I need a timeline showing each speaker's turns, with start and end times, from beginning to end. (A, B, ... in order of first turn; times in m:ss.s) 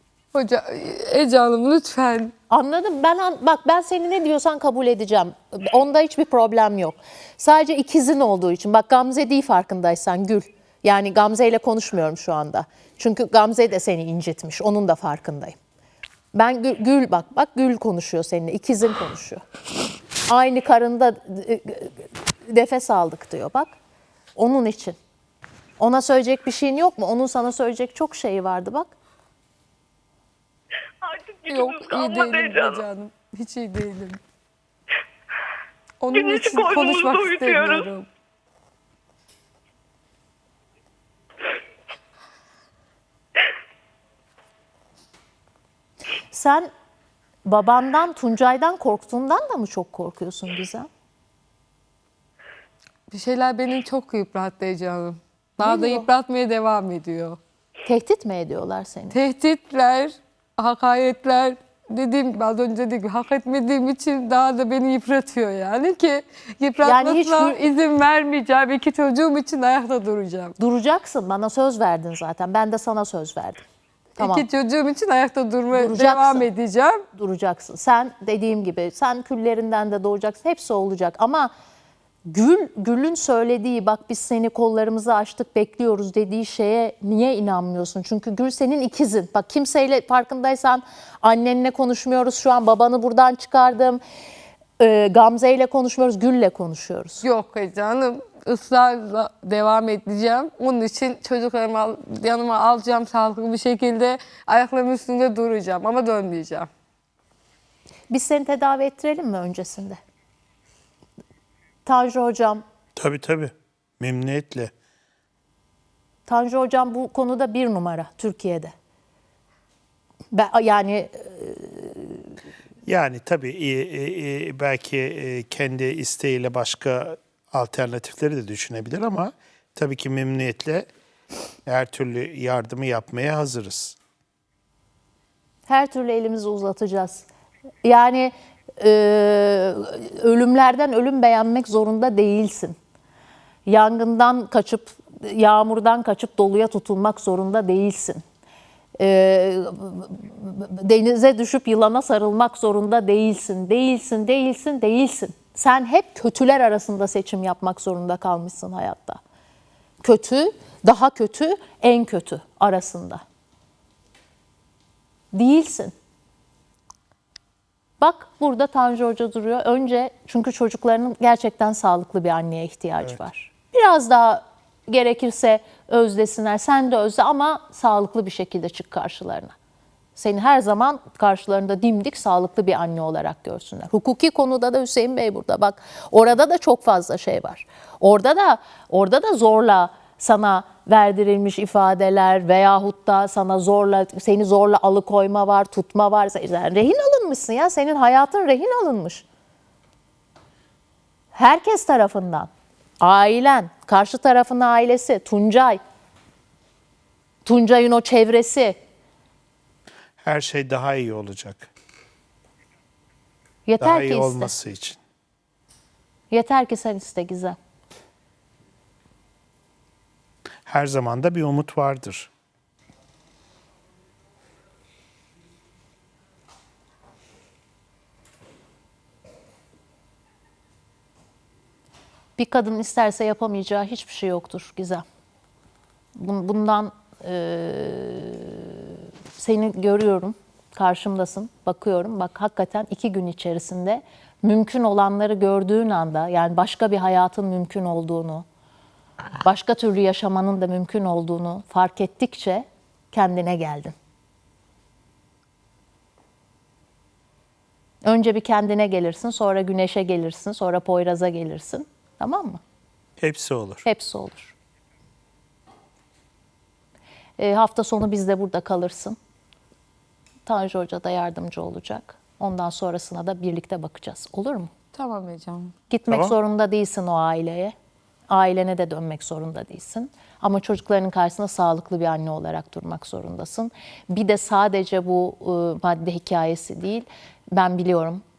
0:00.3-0:02.3 A
0:02.5-0:15.6 B
0:16.3-0:19.4 B
0:20.3-0:23.8 B
0:24.4-0:25.0 B
0:25.8-0:28.9 B
0:31.0-0:32.8 C
0:31.5-0:34.2 A
0:36.0-0:38.1 A
0:36.1-0:37.9 C
0:46.3-0:46.7 B
0:47.4-0:50.9 B
0:53.1-0:57.4 A
0:55.6-0:56.1 B
0:57.8-0:59.2 B
0:59.1-1:10.6 A
1:06.8-1:07.6 B
1:10.6-1:13.7 B
1:14.2-1:14.5 B
1:14.2-1:17.0 A
1:15.7-1:16.5 B
1:17.2-1:21.5 B
1:22.3-1:34.0 B
1:34.8-1:37.2 B
1:37.2-1:46.7 A
1:48.1-1:50.0 B
1:51.8-1:52.6 B
1:53.0-1:54.7 D
1:56.3-1:58.7 B
2:00.3-2:02.3 B
2:02.8-2:10.9 D
2:11.7-2:14.0 D
2:15.7-2:17.3 B
2:17.8-2:22.8 B
2:23.7-2:28.2 B
2:29.0-2:39.2 B
2:40.0-2:43.2 B
2:45.3-2:45.9 B
2:48.0-2:59.5 B
3:00.2-3:19.2 B
3:21.3-3:22.5 B
3:23.0-3:25.8 B
3:27.4-3:28.8 B
3:30.2-3:31.7 D
3:33.7-3:34.5 B
3:33.8-3:35.0 D
3:36.3-3:37.6 B
3:40.6-3:42.3 D
3:52.4-3:55.0 B
3:56.2-4:08.4 B
4:09.4-4:14.0 B
4:18.0-4:22.6 B
4:23.2-4:23.8 D
4:23.8-4:24.6 B
4:27.4-4:29.2 B
4:30.5-4:34.7 B
4:34.9-4:35.7 A
4:35.9-4:37.7 B
4:36.1-4:36.4 D
4:38.3-4:48.2 B